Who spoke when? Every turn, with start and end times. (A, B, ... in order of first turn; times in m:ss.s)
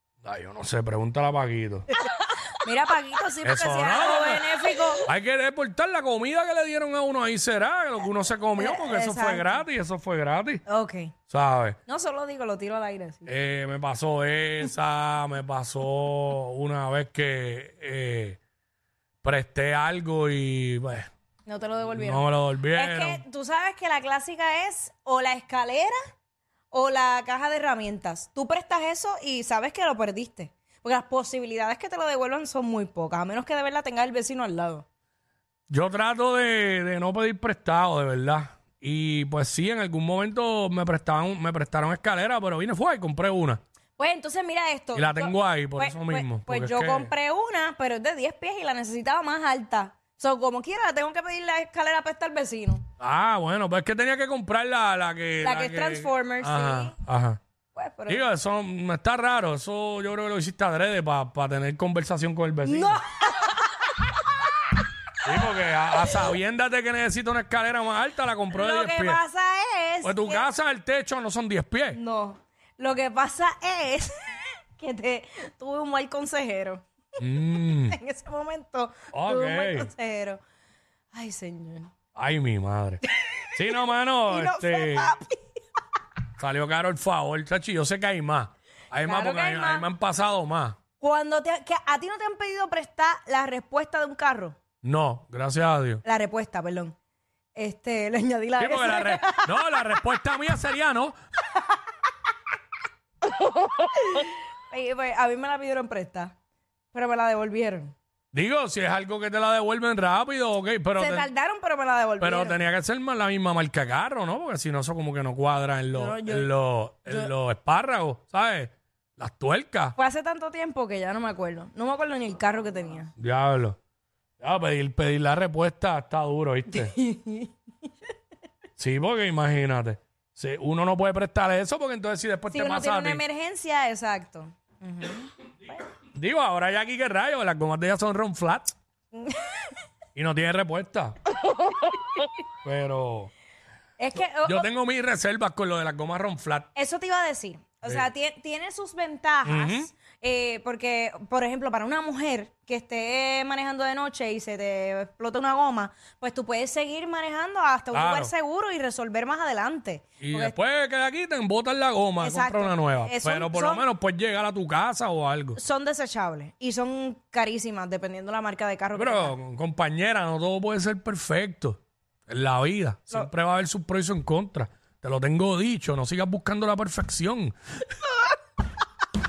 0:00.2-0:01.9 A
0:02.0-0:05.0 B
0:03.4-0:04.5 A
0:05.0-0:10.6 A
0:08.6-0:09.6 B
0:10.7-0:11.1 B
0:11.3-0:11.8 A
0:11.9-0:13.3 B
0:13.3-0:18.4 A
0:19.2-0:21.1 A
0:21.5-0:26.0 B
0:21.9-0:23.2 A
0:26.7-0:34.9 B
0:35.7-0:43.6 A
0:44.0-0:52.8 B
0:44.9-0:47.1 A
0:53.0-0:57.4 A
0:55.4-0:56.9 B
0:57.8-0:58.2 B
0:58.1-1:03.0 A
1:02.6-1:04.7 B
1:05.2-1:09.2 A
1:08.5-1:10.4 B
1:10.0-1:12.0 A
1:11.9-1:16.8 B
1:17.2-1:18.0 A
1:17.6-1:20.4 B
1:19.1-1:19.9 A
1:21.1-1:21.9 B
1:22.2-1:23.0 A
1:23.2-1:23.5 B
1:23.6-1:25.1 A
1:24.3-1:25.4 B
1:26.4-1:30.8 A
1:29.0-1:29.9 B
1:31.0-1:34.6 B
1:34.8-1:36.0 A
1:36.0-1:37.0 B
1:37.6-1:40.0 B
1:38.6-1:41.1 A
1:43.4-1:46.3 B
1:46.9-1:47.9 B
1:48.3-1:51.3 A
1:51.0-1:52.6 B
1:52.2-2:00.0 A
1:55.9-1:56.5 B
1:57.1-1:57.3 B
2:00.0-2:03.1 B
2:03.2-2:03.8 A
2:04.4-2:07.0 A
2:06.7-2:07.5 B
2:08.8-2:13.2 A
2:12.5-2:15.8 B
2:16.1-2:18.7 A
2:19.1-2:19.8 B
2:20.2-2:21.2 A
2:21.5-2:21.9 B
2:22.6-2:23.3 A
2:24.0-2:24.7 B
2:24.2-2:26.7 A
2:26.8-2:40.6 B
2:29.4-2:29.9 A
2:37.9-2:38.3 A
2:40.2-2:45.6 A
2:42.2-2:43.9 B
2:45.6-2:49.3 B
2:49.0-2:57.5 A